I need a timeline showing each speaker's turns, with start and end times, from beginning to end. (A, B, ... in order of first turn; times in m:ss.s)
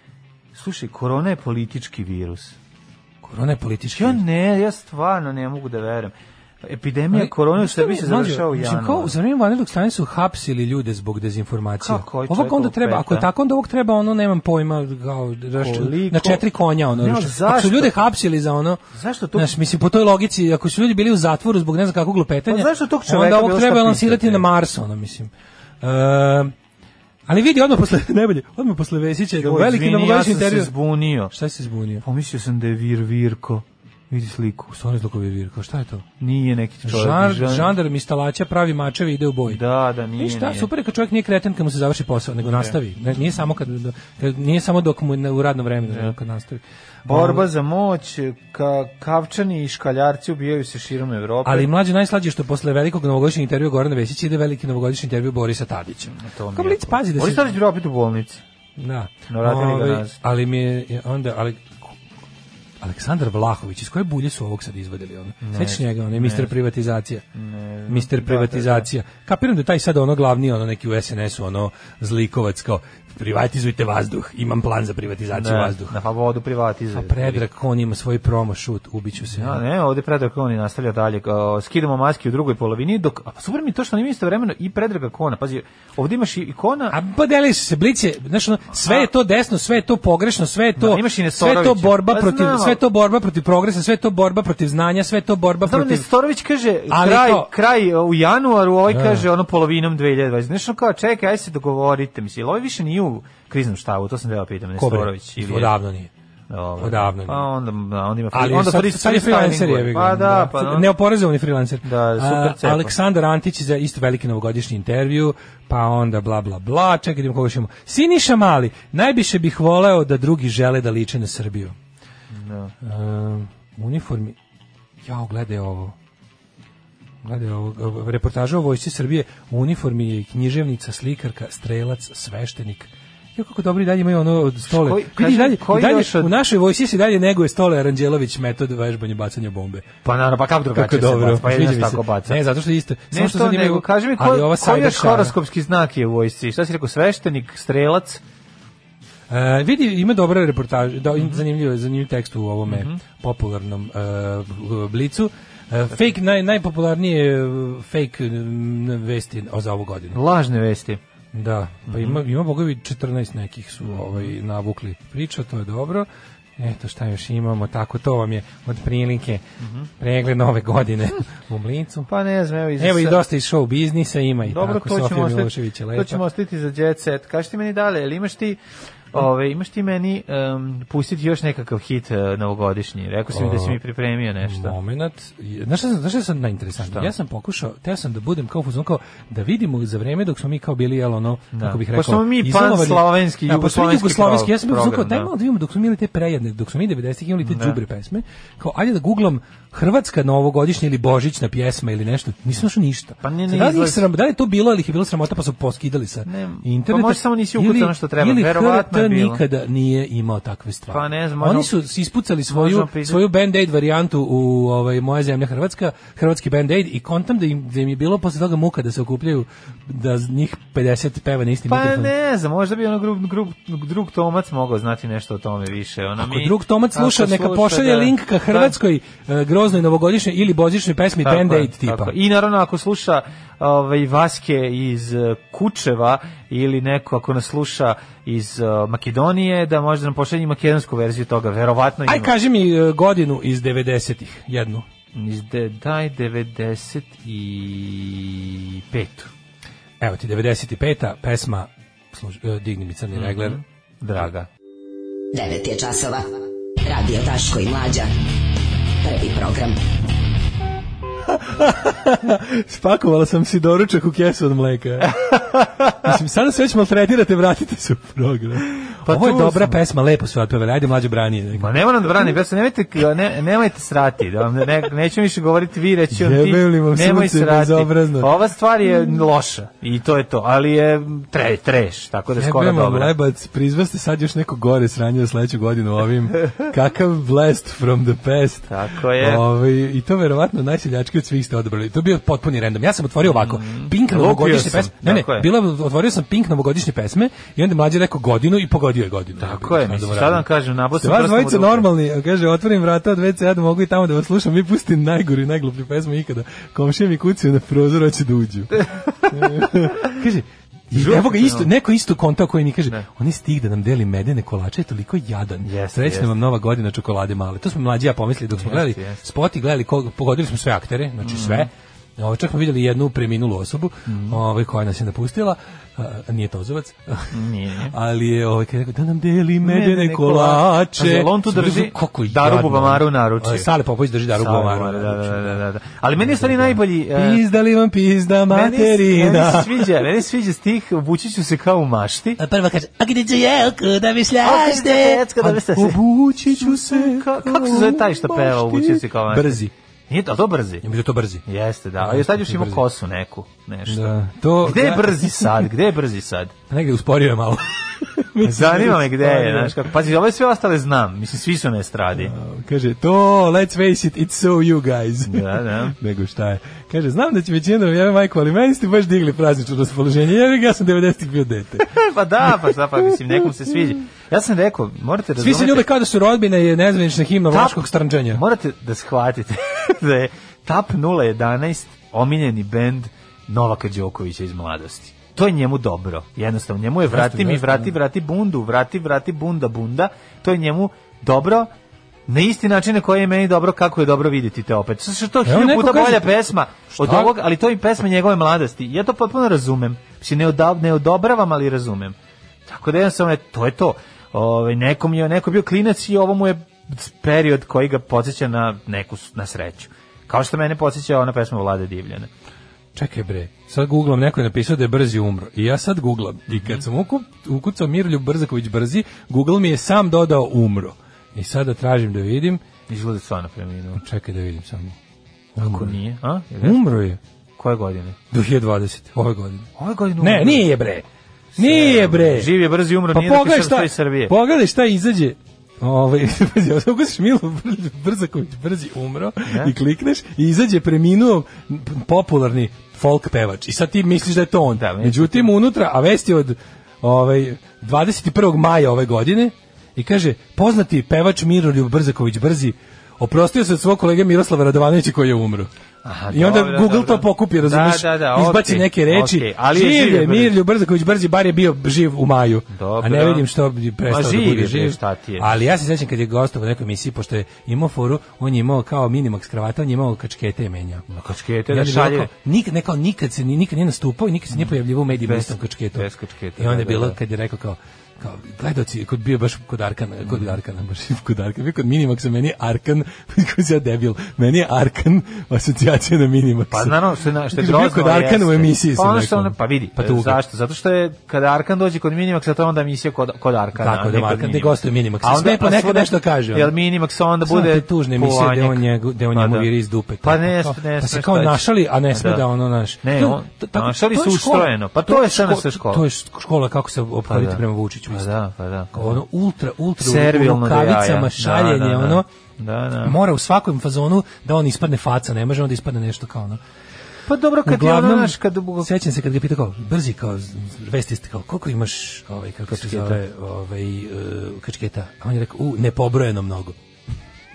0:00.5-0:02.6 A
0:03.2-0:04.2 B
0:03.9-0:09.1 A
0:07.1-0:18.8 B
0:11.8-0:13.3 A
0:15.6-0:16.4 A
0:17.0-0:17.9 A
0:18.9-0:19.5 A
0:19.3-0:25.3 B
0:22.5-0:24.5 A
0:25.8-0:26.5 B
0:27.3-0:30.7 B
0:29.4-0:31.3 A
0:31.3-0:32.0 B
0:32.0-0:34.7 A
0:34.7-0:36.0 B
0:36.2-0:37.7 A
0:36.8-0:39.6 B
0:39.5-0:40.7 A
0:40.2-0:47.5 B
0:42.5-0:42.8 A
0:45.8-0:46.2 A
0:47.1-0:51.7 A
0:51.4-0:57.5 B
0:56.1-0:58.4 A
0:58.8-1:01.9 B
0:59.3-1:00.1 A
1:02.8-1:07.2 B
1:05.4-1:06.5 A
1:07.3-1:08.9 A
1:07.9-1:16.0 B
1:15.3-1:17.4 A
1:16.9-1:19.6 B
1:19.3-1:27.0 A
1:26.9-1:36.1 B
1:28.8-1:29.1 A
1:30.8-1:32.8 A
1:35.6-1:45.7 A
1:36.9-1:37.5 B
1:38.9-1:39.2 B
1:44.8-1:46.1 B
1:46.5-1:50.9 A
1:46.8-1:47.5 B
1:48.3-2:01.7 B
1:51.8-1:52.9 A
2:02.3-2:02.7 A
2:02.8-2:04.4 B
2:05.0-2:05.9 B
2:07.2-2:19.9 B
2:14.6-2:16.3 A
2:20.0-2:22.4 A
2:20.7-2:25.3 B
2:23.1-2:28.2 A
2:29.3-2:40.2 B
2:31.1-2:31.4 A
2:32.7-2:33.0 A
2:40.1-2:41.0 A
2:41.3-2:46.1 B
2:41.9-2:42.2 A
2:43.8-2:44.3 A
2:46.6-2:49.4 B
2:49.6-2:49.9 A
2:50.0-2:52.1 B
2:52.1-2:53.2 A
2:52.8-2:56.2 B
2:54.4-2:58.6 A
2:59.1-3:04.8 A
3:03.3-3:03.8 B
3:04.4-3:42.1 B
3:06.8-3:07.1 A
3:11.5-3:15.3 A
3:17.4-3:17.8 A
3:23.2-3:24.0 A
3:26.2-3:29.4 A
3:30.9-3:31.7 A
3:32.5-3:33.2 A
3:41.7-3:48.8 A
3:46.2-3:52.1 B
3:51.2-4:02.3 A
4:02.1-4:04.9 B
4:05.1-4:09.3 A
4:10.0-4:13.6 B
4:13.1-4:14.5 A
4:15.3-4:16.3 C
4:16.8-4:18.1 C
4:19.0-4:19.8 C
4:21.3-4:25.3 B
4:25.0-4:25.9 A
4:25.9-4:32.2 B
4:29.0-4:29.8 A
4:31.5-4:43.1 A
4:36.1-4:38.3 B
4:42.4-5:00.5 B
4:48.7-4:49.5 A
4:53.2-4:55.5 A
4:59.4-5:01.9 A
5:01.0-5:35.6 B
5:08.8-5:09.7 A
5:10.9-5:11.7 A
5:15.6-5:16.3 A
5:18.5-5:19.2 A
5:21.2-5:21.7 A
5:24.1-5:24.4 A
5:27.3-5:27.9 A
5:29.6-5:33.7 A
5:34.3-5:37.4 A
5:36.2-5:39.9 B
5:38.5-5:42.4 A
5:42.4-5:49.7 B
5:44.4-5:50.8 A
5:50.8-5:51.4 B
5:51.4-5:56.5 A
5:52.0-5:52.8 B
5:53.9-5:55.6 B
5:56.7-5:59.8 B
5:58.4-6:02.3 A
6:02.1-6:11.9 B
6:05.2-6:05.9 A
6:11.8-6:15.9 A
6:15.4-6:18.4 B
6:17.5-6:31.7 A
6:27.1-6:27.9 B
6:32.3-6:52.3 A
6:35.4-6:36.4 B
6:36.9-6:37.3 B
6:52.9-7:02.6 B
6:56.5-6:56.8 A
7:02.9-7:04.0 A
7:04.0-7:05.0 B
7:05.6-7:06.0 B
7:05.6-7:06.8 A
7:06.6-7:07.2 B
7:07.6-7:08.2 A
7:08.3-7:09.7 B
7:09.8-7:10.7 A
7:10.2-7:11.0 B
7:11.6-7:14.3 A
7:11.6-7:12.5 B
7:13.1-7:35.7 B
7:19.4-7:19.7 A
7:24.7-7:25.5 A
7:36.0-7:40.6 A
7:36.3-7:51.0 B
7:42.7-7:43.5 A
7:44.0-7:45.6 A
7:51.1-7:52.3 A
7:51.7-8:07.0 B
7:54.5-7:57.2 A
8:00.3-8:00.5 A
8:06.7-8:19.7 A
8:07.5-8:10.4 B
8:13.7-8:16.7 B
8:17.4-8:28.3 B
8:20.2-8:22.4 A
8:23.0-8:26.0 A
8:27.3-8:29.2 A
8:28.9-8:32.3 B
8:30.0-8:33.2 A
8:33.0-8:36.6 B
8:37.3-8:38.9 A
8:37.6-8:46.8 B
8:42.7-8:43.2 A